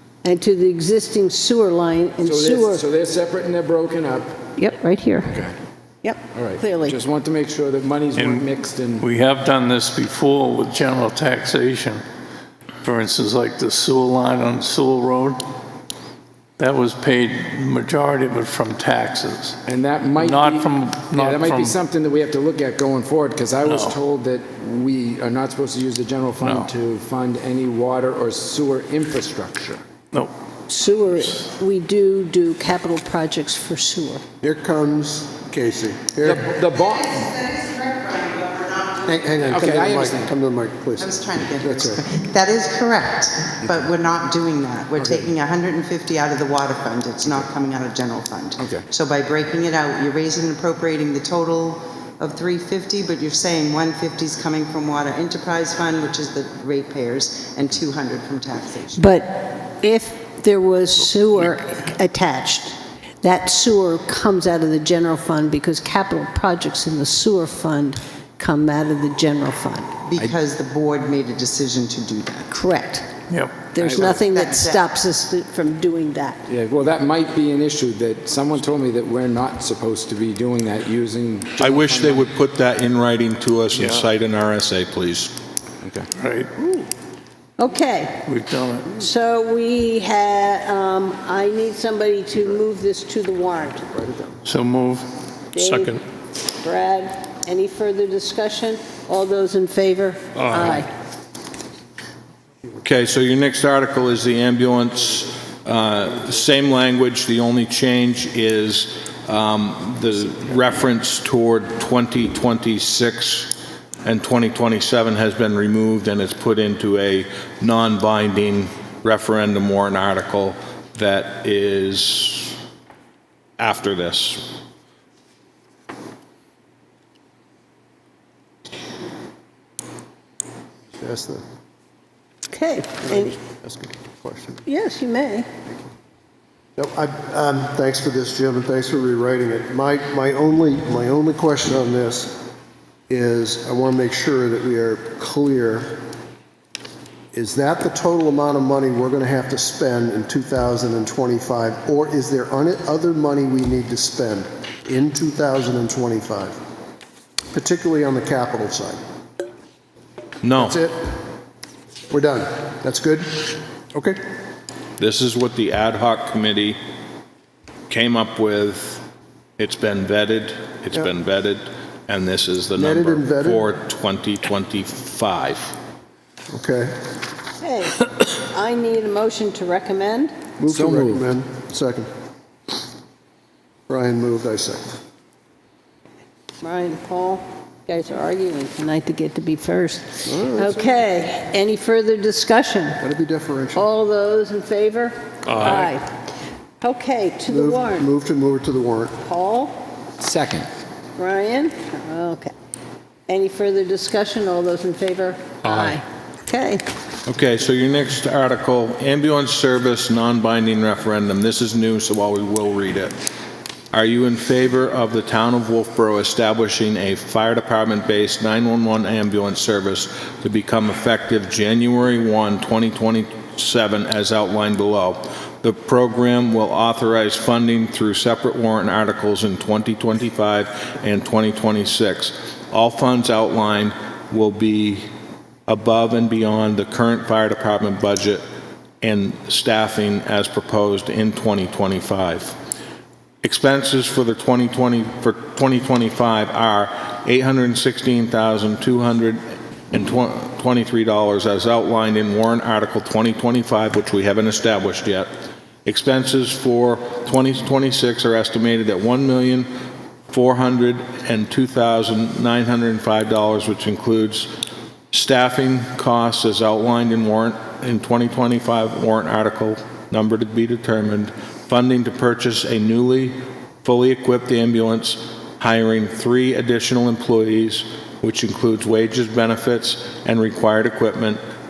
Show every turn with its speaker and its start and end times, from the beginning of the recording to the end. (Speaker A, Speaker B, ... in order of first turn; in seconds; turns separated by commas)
Speaker A: 0.2-2.9, Speaker B: 2.2-4.4, Speaker A: 4.6-5.4, Speaker B: 5.3-5.5, Speaker A: 6.0-7.0, Speaker B: 6.3-9.1, Speaker C: 8.2-8.4, Speaker C: 9.0-12.0, Speaker C: 12.8-15.4, Speaker C: 16.6-19.6, Speaker B: 19.7-29.8, Speaker C: 20.2-21.8, Speaker C: 23.6-24.0, Speaker C: 26.4-26.7, Speaker A: 30.7-34.2, Speaker D: 34.4-36.5, Speaker B: 36.2-37.4, Speaker E: 37.4-39.0, Speaker D: 39.0-42.0, Speaker B: 39.5-40.3, Speaker E: 41.0-59.0, Speaker B: 48.6-48.9, Speaker A: 59.0-70.0, Speaker E: 70.1-72.5, Speaker A: 72.5-73.1, Speaker C: 73.3-73.7, Speaker A: 73.7-76.4, Speaker B: 73.8-74.2, Speaker E: 73.9-74.8, Speaker B: 76.5-82.3, Speaker F: 81.6-85.3, Speaker C: 83.8-84.0, Speaker B: 85.8-86.1, Speaker C: 86.2-86.5, Speaker A: 87.6-88.3, Speaker C: 88.2-88.9, Speaker A: 88.9-93.9, Speaker C: 94.5-96.0, Speaker A: 95.5-96.0, Speaker A: 96.6-100.9, Speaker F: 102.8-122.6, Speaker F: 123.6-124.5, Speaker D: 131.0-131.4, Speaker A: 132.5-133.4, Speaker D: 133.1-134.6, Speaker A: 134.7-135.5, Speaker D: 136.8-142.4, Speaker D: 143.1-146.0, Speaker D: 147.3-156.6, Speaker D: 157.5-159.0, Speaker F: 160.4-160.8, Speaker D: 160.6-161.1, Speaker D: 162.1-164.2, Speaker F: 165.0-166.8, Speaker F: 167.9-169.1, Speaker F: 169.6-175.8, Speaker D: 172.8-173.7, Speaker D: 176.5-176.9, Speaker A: 177.6-180.3, Speaker D: 180.6-182.1, Speaker B: 180.7-181.2, Speaker D: 183.9-185.0, Speaker A: 186.6-193.0, Speaker D: 190.2-190.9, Speaker D: 193.0-193.9, Speaker A: 193.8-196.2, Speaker A: 196.8-198.1, Speaker D: 197.5-199.2, Speaker A: 199.2-199.8, Speaker B: 200.2-200.7, Speaker A: 201.2-202.5, Speaker A: 203.3-206.8, Speaker F: 207.3-213.2, Speaker F: 213.9-235.0, Speaker F: 235.7-238.4, Speaker F: 239.0-242.6, Speaker F: 243.4-249.4, Speaker F: 249.9-255.3, Speaker F: 255.8-259.7, Speaker F: 260.3-264.5, Speaker F: 265.1-281.4